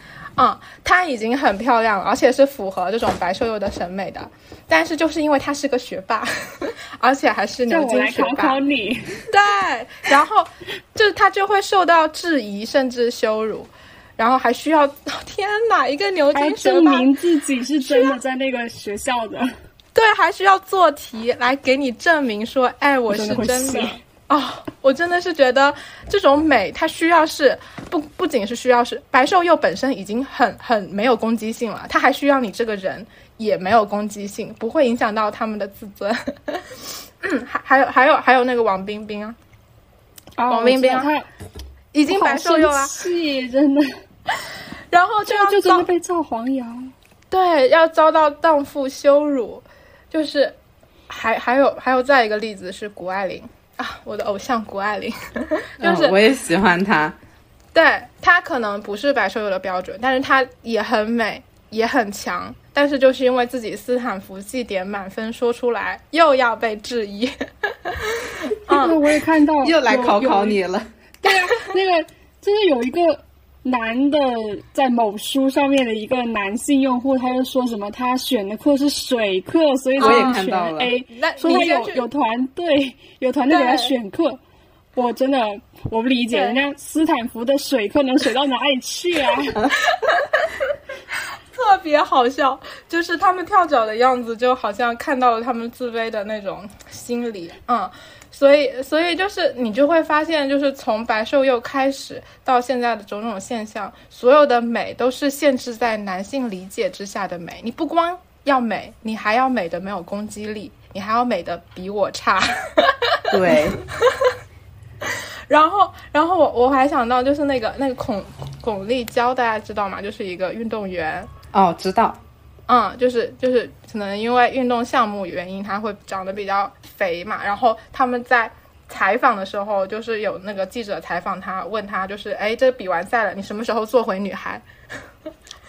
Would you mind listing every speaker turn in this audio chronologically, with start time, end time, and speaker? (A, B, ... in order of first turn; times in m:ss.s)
0:00.4-0:08.6 A
0:07.7-0:09.2 B
0:09.3-0:17.1 A
0:16.3-0:19.5 B
0:17.8-0:18.2 A
0:19.9-0:39.4 A
0:23.1-0:24.0 B
0:40.4-0:41.2 B
0:40.5-0:41.1 A
0:41.9-0:42.9 A
0:42.1-0:43.9 B
0:44.9-0:45.9 A
0:45.3-0:46.9 B
0:47.3-0:50.5 A
0:51.1-0:56.2 A
0:55.8-0:57.2 C
0:57.7-1:08.9 A
1:08.7-1:10.6 B
1:09.6-1:10.9 C
1:11.2-1:24.4 B
1:11.2-1:11.7 A
1:20.0-1:20.4 A
1:20.0-1:20.9 C
1:21.1-1:22.0 A
1:23.5-1:23.9 A
1:25.0-1:29.6 B
1:26.3-1:26.6 A
1:29.9-1:30.5 A
1:31.5-1:54.1 A
1:53.3-1:53.8 C
1:55.1-2:01.3 A
2:01.5-2:02.2 C
2:02.7-2:14.6 A